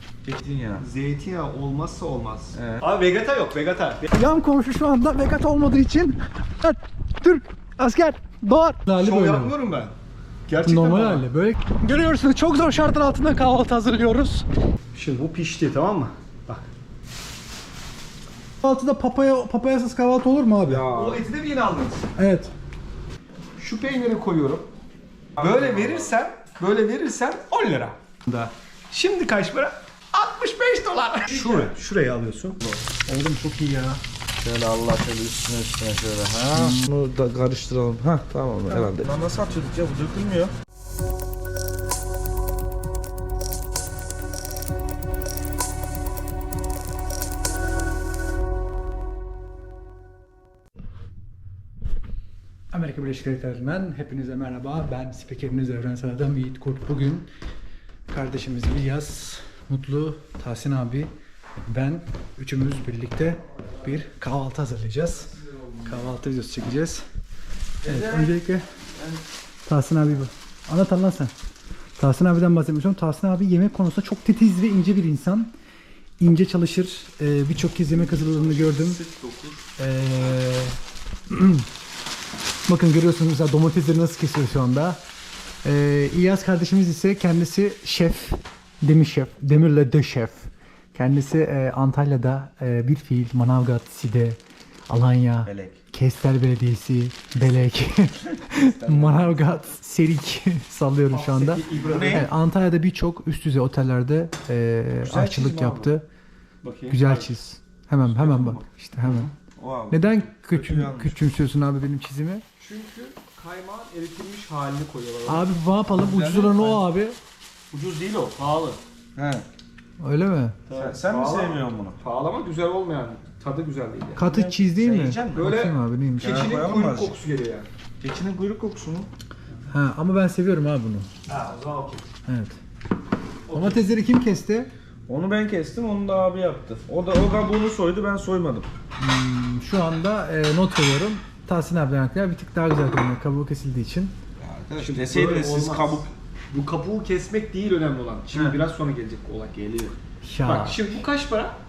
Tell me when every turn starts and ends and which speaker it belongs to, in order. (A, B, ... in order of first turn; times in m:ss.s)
0:00.2-0:00.8 A
0:00.8-0:04.1 B
0:02.5-0:02.8 A
0:04.1-0:09.5 C
0:09.0-0:09.9 B
0:10.5-0:11.2 B
0:10.6-0:14.4 C
0:14.9-0:16.7 B
0:18.6-0:20.9 C
0:20.7-0:21.2 A
0:20.7-0:22.1 B
0:22.2-0:22.5 C
0:23.6-0:24.7 B
0:25.3-0:26.1 A
0:25.4-0:32.7 B
0:33.1-0:34.0 C
0:34.4-0:40.5 A
0:36.5-0:36.8 C
0:52.7-0:57.3 C
0:58.1-1:01.1 C
1:01.7-1:05.3 C
1:05.4-1:06.0 A
1:05.8-1:07.0 C
1:07.8-1:09.2 A
1:07.8-1:08.6 C
1:09.7-1:11.3 C
1:12.0-1:15.5 C
1:16.2-1:19.0 C
1:17.9-1:19.7 A
1:19.8-1:20.8 C
1:21.3-1:21.7 C
1:22.7-1:25.0 C
1:25.6-1:46.0 C
1:35.4-1:35.8 A
1:38.7-1:39.2 B
1:41.1-1:42.3 B
1:41.9-1:42.3 A
1:45.0-1:45.9 A
1:46.6-1:47.3 B
1:46.9-1:49.3 C
1:48.0-1:48.6 A
1:49.0-1:49.3 B
1:49.6-1:51.2 A
1:49.9-1:52.4 C
1:52.6-1:55.5 B
1:55.3-1:57.2 C
1:55.9-1:56.9 A
1:57.7-1:58.8 B
1:59.1-1:59.4 A
2:00.0-2:00.6 C
2:00.7-2:04.2 B
2:00.7-2:02.0 A
2:04.2-2:06.4 C
2:04.2-2:05.5 A
2:05.3-2:07.7 B
2:06.2-2:07.2 A
2:08.0-2:09.1 A
2:09.7-2:11.1 C
2:11.3-2:12.0 B
2:12.3-2:12.6 C
2:13.5-2:13.8 B
2:13.5-2:14.7 C
2:15.1-2:18.7 A
2:19.0-2:24.1 C
2:24.4-2:26.1 A
2:24.8-2:31.6 B
2:28.3-2:28.6 A
2:30.2-2:30.8 C